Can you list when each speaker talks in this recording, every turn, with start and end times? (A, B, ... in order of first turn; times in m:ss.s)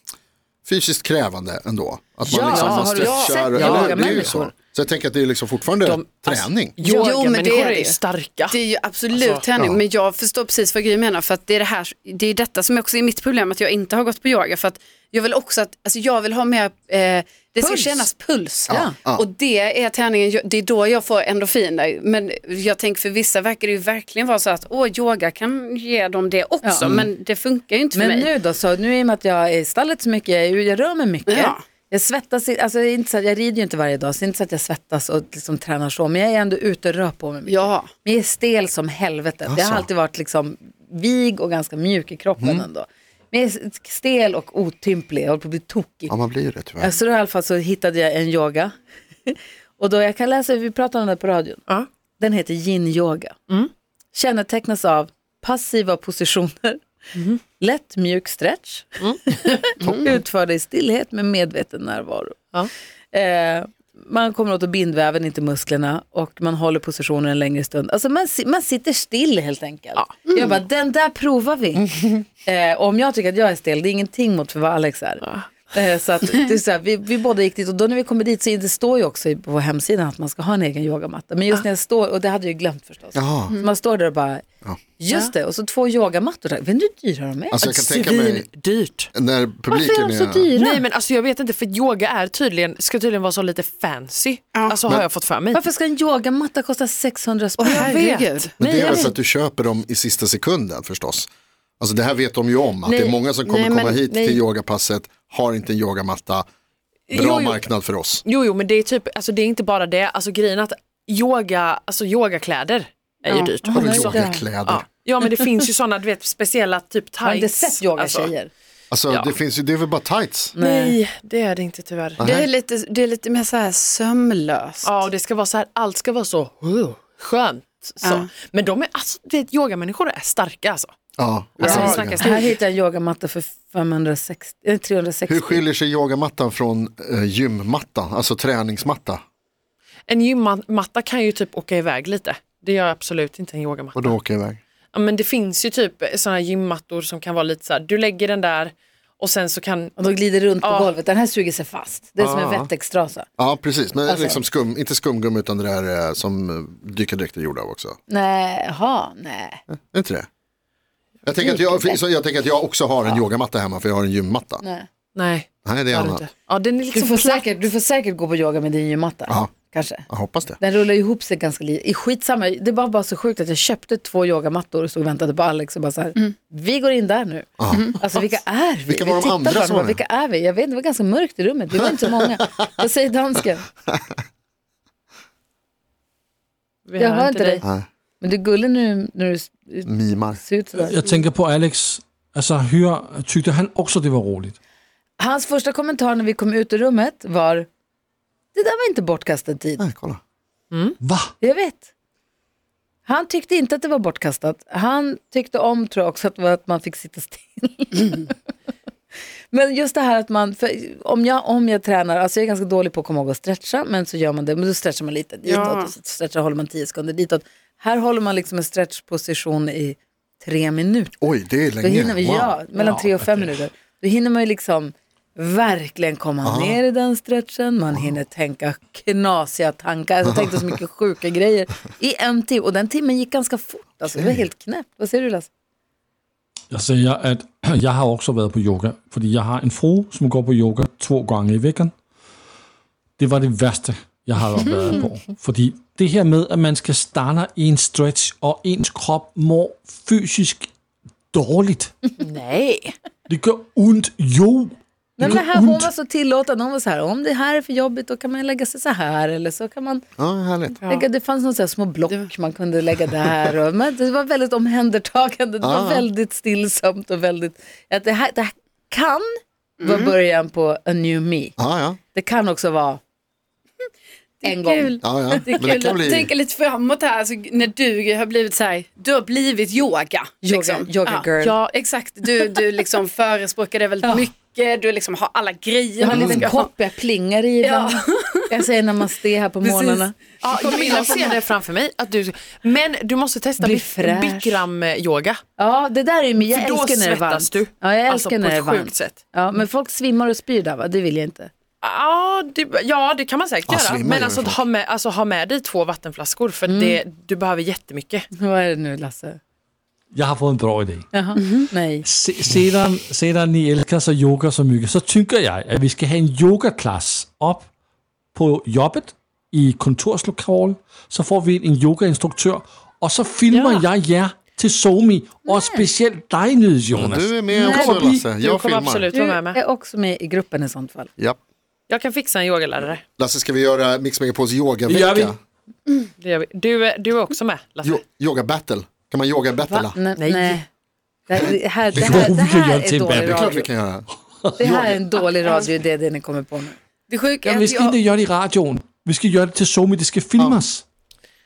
0:00.6-0:06.8 A
0:02.2-0:04.5 B
0:02.3-0:04.3 C
0:03.0-0:03.4 D
0:05.8-0:08.6 C
0:06.8-0:08.0 D
0:08.5-0:28.3 D
0:09.1-0:09.4 C
0:17.6-0:18.0 B
0:18.7-0:18.9 B
0:18.7-0:19.2 A
0:27.9-0:46.2 B
0:31.3-0:31.6 D
0:37.4-0:37.9 D
0:39.5-0:39.9 A
0:42.4-0:42.6 A
0:46.1-0:46.9 A
0:46.8-0:48.7 B
0:49.3-0:51.6 B
0:52.2-0:53.3 B
0:54.1-0:56.8 B
0:57.1-0:57.4 C
0:57.6-1:02.4 B
0:59.8-1:00.1 A
1:03.1-1:24.4 B
1:23.1-1:23.5 A
1:25.0-1:27.6 B
1:27.5-1:28.5 A
1:27.6-1:29.1 C
1:29.1-1:30.5 A
1:29.7-1:35.6 C
1:30.5-1:30.8 B
1:35.5-1:38.0 B
1:37.6-1:39.0 D
1:37.6-1:39.1 C
1:38.6-1:41.3 A
1:38.6-1:39.0 B
1:41.8-1:46.4 A
1:43.5-1:44.4 C
1:47.1-1:47.7 C
1:47.1-1:48.2 A
1:48.2-1:58.3 C
1:53.3-1:53.6 D
1:53.6-1:54.5 B
1:53.7-1:54.9 A
1:57.2-1:58.5 B
1:58.9-2:00.5 A
1:59.1-1:59.4 C
2:00.5-2:01.0 B
2:00.6-2:02.3 C
2:02.2-2:02.5 A
2:02.2-2:05.0 D
2:04.8-2:10.9 C
2:08.0-2:08.3 D
2:11.2-2:12.3 A
2:11.6-2:12.5 C
2:11.6-2:15.6 B
2:15.3-2:19.2 A
2:20.1-2:24.1 C
2:23.9-2:24.6 A
2:24.9-2:29.9 C
2:30.0-2:33.3 B
2:30.6-2:30.9 C
2:32.2-2:32.7 A
2:33.4-2:38.0 A
2:34.0-2:34.4 B
2:38.1-2:39.6 B
2:39.9-2:40.3 A
2:41.2-2:44.6 A
2:41.4-2:42.0 B
2:44.6-2:44.9 B
2:45.1-2:47.4 C
2:45.6-2:46.2 A
2:46.9-2:50.1 B
2:49.3-2:49.5 A
2:50.1-2:50.6 A
2:50.6-3:03.7 B
2:57.6-2:58.0 A
2:57.7-2:58.0 D
2:58.9-3:00.0 A
3:06.8-3:07.6 C
3:07.0-3:07.7 B
3:08.2-3:11.0 B
3:09.8-3:10.4 A
3:10.8-3:14.5 E
3:15.2-3:17.7 B
3:18.5-3:19.8 B
3:19.8-3:20.2 A
3:20.7-3:21.0 C
3:21.0-3:21.3 E
3:21.4-3:21.9 B
3:23.0-3:28.3 B
3:29.5-3:41.2 B
3:35.4-3:35.9 D
3:41.2-3:42.6 A
3:41.8-3:55.5 B
3:42.8-3:43.4 E
3:46.4-3:46.8 A
3:50.2-3:50.7 A
3:54.1-3:54.4 A
3:56.7-4:01.9 E
4:03.2-4:10.7 E
4:11.3-4:11.9 E
4:12.2-4:13.0 C
4:13.3-4:15.9 E
4:15.2-4:20.0 B
4:20.2-4:20.8 A
4:20.8-4:29.3 B
4:25.6-4:26.0 A
4:29.8-4:30.1 D
4:29.8-4:31.5 B
4:31.6-4:32.0 A
4:32.1-4:33.0 B
4:34.4-4:46.7 D
4:34.4-4:35.6 B
4:35.0-4:36.3 A
4:40.4-4:41.6 B
4:41.4-4:41.7 C
4:46.0-4:50.2 B
4:46.1-4:46.5 A
4:47.6-4:48.5 D
4:49.6-4:55.4 C
4:50.6-4:51.3 D
4:53.6-4:54.6 B
4:55.6-5:01.5 B
4:56.5-4:59.2 C
5:01.8-5:08.2 C
5:03.7-5:04.6 A
5:06.7-5:07.0 B
5:08.3-5:09.4 B
5:10.1-5:11.2 E
5:11.1-5:12.0 B
5:11.4-5:11.7 D
5:12.0-5:17.7 E
5:18.3-5:28.3 E
5:23.5-5:23.8 C
5:25.4-5:25.9 B
5:26.9-5:29.1 A
5:27.5-5:28.0 B
5:28.4-5:29.6 C
5:29.1-5:31.1 B
5:31.9-5:33.0 C
5:33.2-5:35.4 A
5:34.9-5:35.3 E
5:36.2-5:38.0 C
5:37.8-5:40.0 A
5:39.8-5:40.6 C
5:39.9-5:40.7 B
5:41.3-5:43.7 B
5:41.9-5:43.5 E
5:43.2-5:44.0 A
5:44.6-5:45.0 A
5:44.6-5:46.8 B
5:47.1-5:48.0 D
5:47.4-5:50.8 E
5:50.4-5:50.6 A